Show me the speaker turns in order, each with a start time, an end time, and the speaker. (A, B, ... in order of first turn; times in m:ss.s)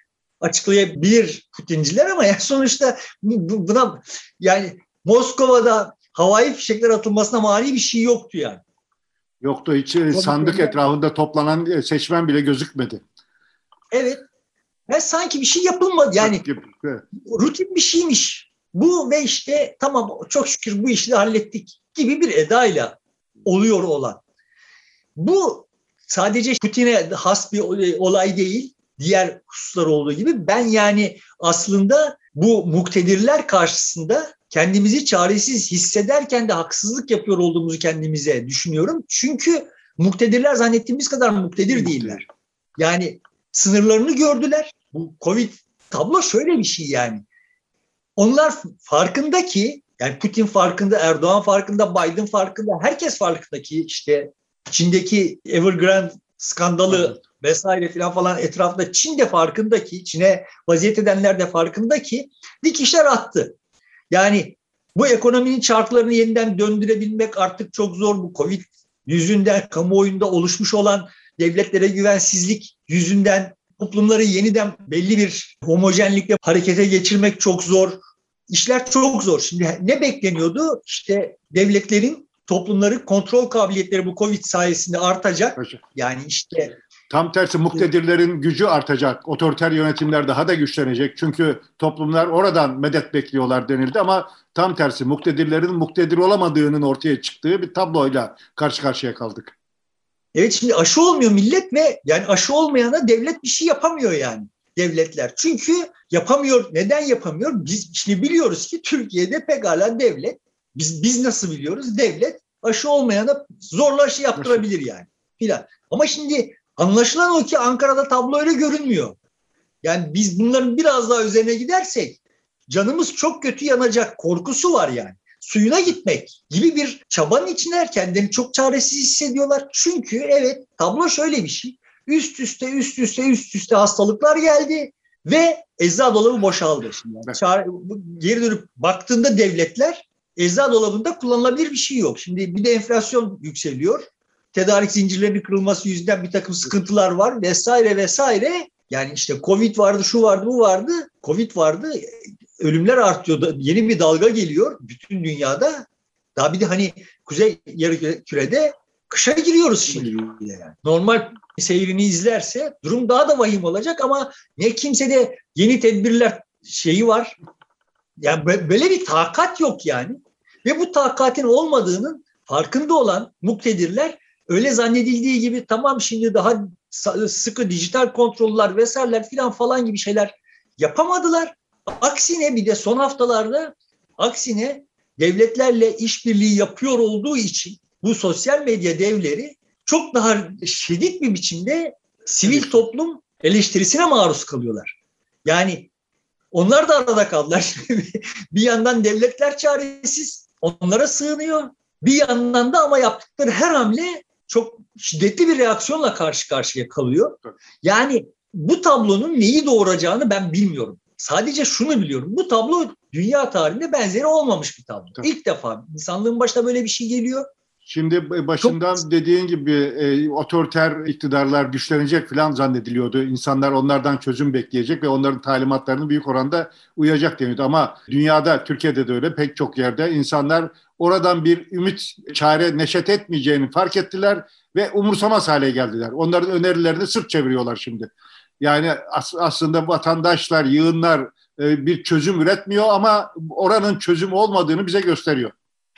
0:00.4-0:08.6 A
0:09.4-0:13.0 B
0:10.1-0:10.8 A
0:13.9-0:14.2 A
0:14.9-0:16.4 A
0:16.2-0:17.0 B
0:17.2-0:24.2 A
0:25.2-0:42.2 A
0:41.9-0:42.2 B
0:42.8-0:47.2 A
0:48.2-1:03.6 A
1:04.1-1:18.0 A
1:18.5-1:26.7 A
1:25.6-1:25.8 B
1:27.1-1:39.5 B
1:40.3-1:59.2 A
1:54.4-1:54.6 B
1:59.8-2:47.4 A
2:48.2-3:15.9 A
3:12.5-3:12.8 B
3:16.5-3:37.5 A
3:37.9-3:58.1 B
3:38.6-3:39.0 A
3:58.6-4:05.5 B